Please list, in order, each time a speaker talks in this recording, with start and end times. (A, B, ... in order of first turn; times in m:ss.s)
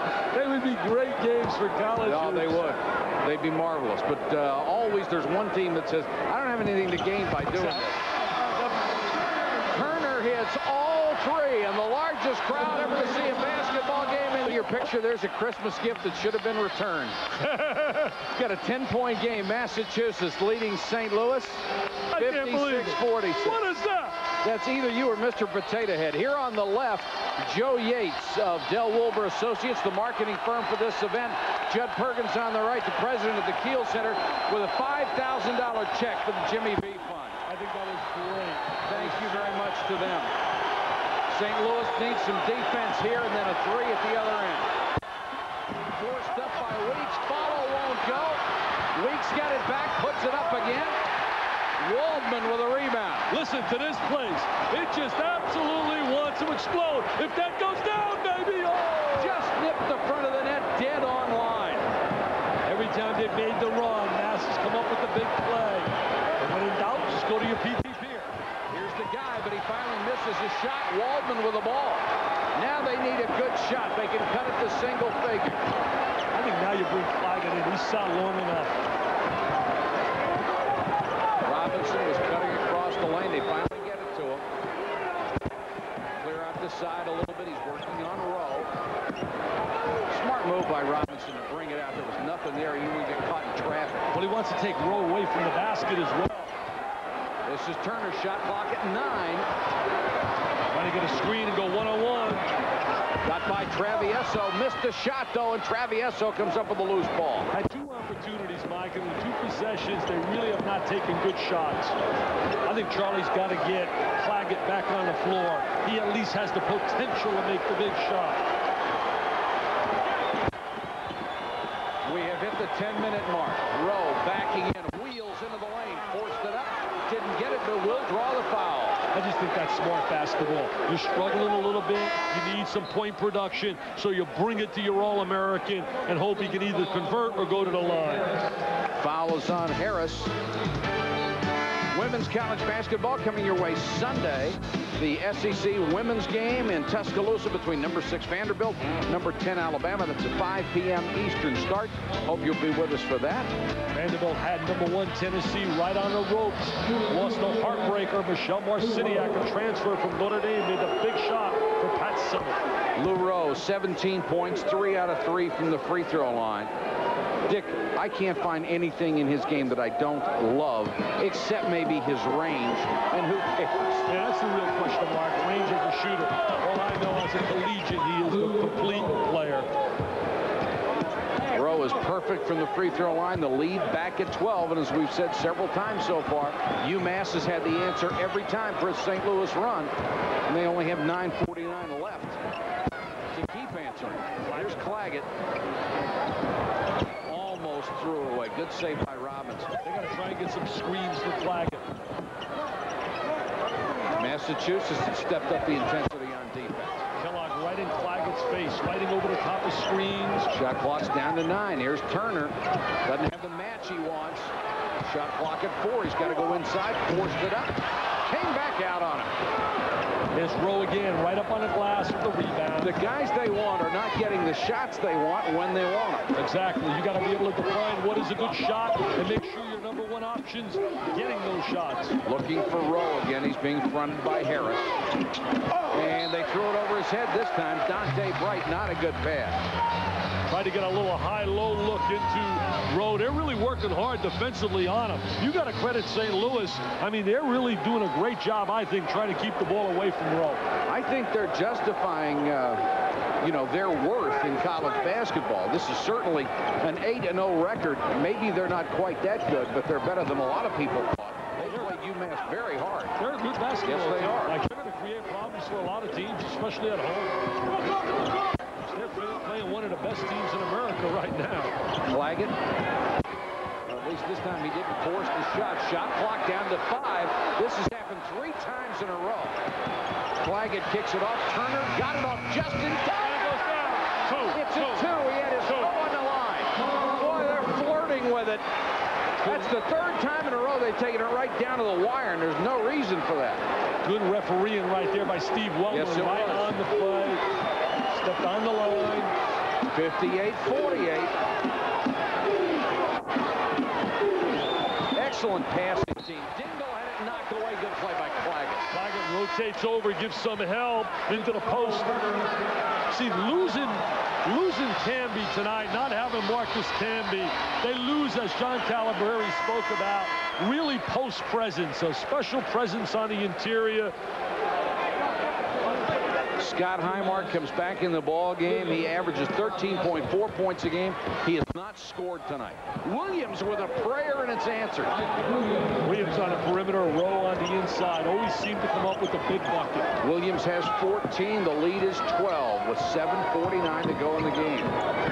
0:00.3-0:02.7 A
0:02.0-0:08.0 B
0:07.5-0:08.9 A
0:09.7-0:17.2 B
0:17.4-0:18.2 A
0:18.2-0:23.6 B
0:22.1-0:24.2 A
0:24.4-0:37.4 B
0:37.4-0:39.5 A
0:38.9-0:40.3 B
0:41.3-0:44.7 B
0:45.9-0:48.4 B
0:48.9-0:51.0 B
0:51.8-0:53.3 B
0:53.3-0:59.3 A
0:59.2-1:01.9 B
1:02.6-1:08.3 A
1:08.7-1:15.6 B
1:16.3-1:18.8 A
1:21.4-1:24.4 B
1:26.2-1:28.7 B
1:30.1-1:34.1 B
1:34.1-1:36.5 A
1:37.4-1:39.5 B
1:40.7-1:42.4 A
1:43.2-1:47.5 B
1:47.5-1:52.0 A
1:52.6-1:58.4 A
2:02.0-2:09.0 B
2:09.1-2:18.3 A
2:19.0-2:20.3 B
2:21.9-2:33.5 B
2:33.9-2:42.6 A
2:43.0-2:46.7 B
2:47.5-2:54.1 B
2:54.1-2:59.7 A
3:01.5-3:09.9 B
3:10.5-3:12.4 B
3:13.3-3:15.3 B
3:14.4-3:14.8 A
3:17.2-3:19.7 B
3:19.8-3:21.8 A
3:24.1-3:27.0 B
3:27.2-3:30.5 A
3:30.5-3:32.5 B
3:33.0-3:39.3 B
3:40.3-3:43.0 A
3:42.8-3:46.2 B
3:46.3-3:52.2 A
3:52.2-3:55.0 B
3:55.9-3:59.6 B
4:00.5-4:10.6 A
4:10.9-4:12.8 B
4:13.4-4:23.1 B
4:21.6-4:21.9 A
4:23.2-4:27.3 A
4:23.8-4:24.5 B
4:28.9-4:31.7 A
4:32.1-4:32.5 B
4:33.9-4:39.6 B
4:40.4-4:43.3 B
4:43.2-4:45.0 A
4:44.5-4:48.6 B
4:45.6-4:45.9 A
4:49.4-4:49.7 A
4:49.4-4:53.6 B
4:54.0-4:57.4 A
4:55.9-4:56.7 B
4:58.1-4:59.3 A
4:59.9-5:01.3 B
5:05.1-5:08.9 B
5:08.9-5:12.4 A
5:13.1-5:24.1 A
5:26.6-5:35.2 B
5:35.8-5:40.1 A
5:40.2-5:45.0 B